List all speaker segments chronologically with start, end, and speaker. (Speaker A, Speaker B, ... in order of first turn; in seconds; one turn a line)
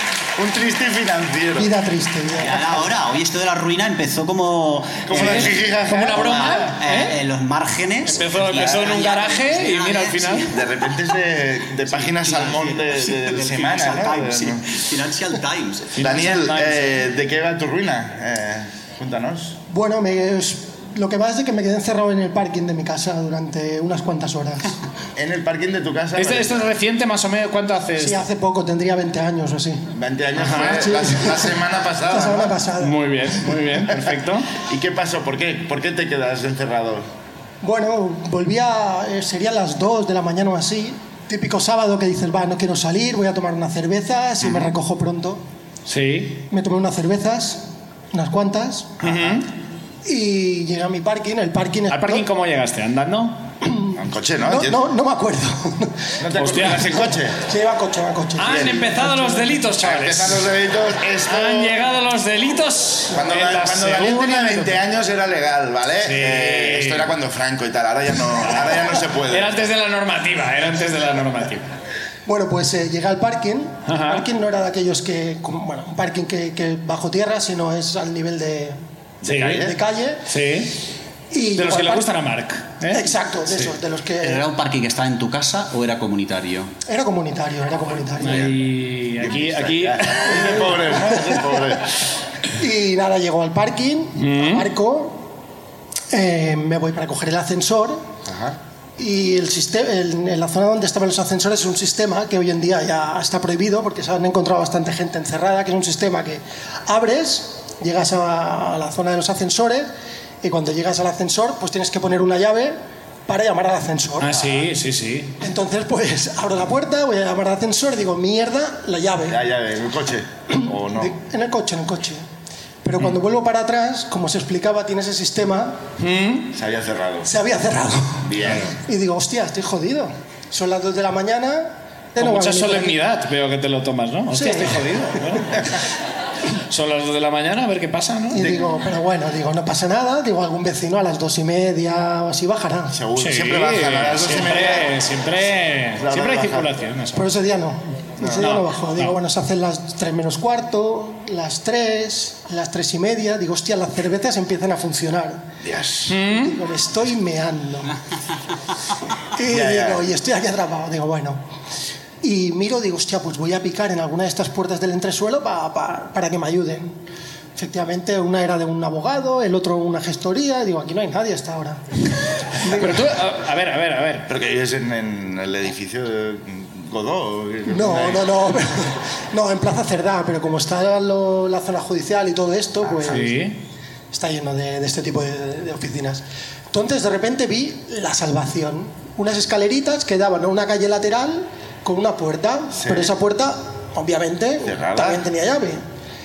Speaker A: 0.4-1.7
Speaker B: 1.6-2.9
Speaker C: 2.4-10.6
Speaker A: 5.0-6.6
Speaker D: 5.1-7.2
Speaker D: 8.1-10.5
Speaker A: 8.4-8.8
Speaker A: 10.5-14.7
Speaker C: 11.9-16.0
Speaker D: 15.9-17.0
Speaker A: 16.0-19.6
Speaker B: 19.7-24.8
Speaker A: 25.2-26.7
Speaker D: 26.1-28.2
Speaker B: 28.0-29.8
Speaker A: 29.9-32.5
Speaker D: 30.4-30.8
Speaker B: 30.6-31.5
Speaker B: 32.1-33.0
Speaker D: 32.8-34.5
Speaker A: 34.6-37.0
Speaker B: 37.6-45.4
Speaker A: 44.4-44.7
Speaker D: 45.9-46.4
Speaker B: 46.5-49.0
Speaker D: 49.0-49.5
Speaker A: 49.0-49.4
Speaker B: 50.0-52.2
Speaker D: 51.9-53.4
Speaker B: 53.6-56.1
Speaker A: 53.9-54.8
Speaker A: 56.2-57.4
Speaker D: 56.3-57.1
Speaker B: 56.8-59.6
Speaker D: 58.4-60.5
Speaker A: 58.4-58.8
Speaker A: 59.8-61.9
Speaker D: 61.2-64.8
Speaker A: 63.1-69.7
Speaker D: 66.0-67.1
Speaker D: 68.4-71.7
Speaker B: 72.2-78.8
Speaker D: 73.9-74.3
Speaker A: 79.2-79.7
Speaker D: 79.2-79.7
Speaker B: 79.5-80.2
Speaker D: 80.3-80.7
Speaker B: 81.3-82.2
Speaker D: 81.5-83.7
Speaker B: 82.9-84.5
Speaker C: 84.2-86.7
Speaker B: 86.8-88.5
Speaker D: 88.2-90.4
Speaker A: 89.2-91.9
Speaker B: 90.3-91.4
Speaker B: 92.6-95.3
Speaker D: 94.2-94.7
Speaker B: 96.1-98.0
Speaker A: 98.2-98.6
Speaker B: 99.0-109.9
Speaker B: 110.4-114.7
Speaker D: 114.2-115.3
Speaker B: 115.4-119.4
Speaker A: 119.3-121.1
Speaker B: 120.5-122.2
Speaker B: 122.8-125.8
Speaker D: 126.0-126.5
Speaker A: 126.5-127.3
Speaker B: 127.2-133.0
Speaker A: 128.2-128.7
Speaker D: 132.2-135.6
Speaker B: 134.3-135.4
Speaker D: 136.7-138.5
Speaker B: 138.3-142.9
Speaker A: 142.9-144.9
Speaker D: 143.2-147.3
Speaker A: 145.9-146.8
Speaker B: 147.1-155.4
Speaker A: 148.2-148.5
Speaker D: 148.4-149.2
Speaker A: 155.6-156.2
Speaker D: 156.1-156.5
Speaker B: 156.3-157.9
Speaker B: 159.3-161.4
Speaker A: 159.5-160.0
Speaker B: 162.2-167.0
Speaker B: 167.6-171.8
Speaker B: 172.6-173.1
Speaker D: 172.7-174.3
Speaker A: 174.3-178.3
Speaker B: 177.7-183.4
Speaker A: 182.9-183.2
Speaker D: 183.1-183.6
Speaker B: 184.1-195.8
Speaker A: 192.7-193.2
Speaker A: 194.6-195.2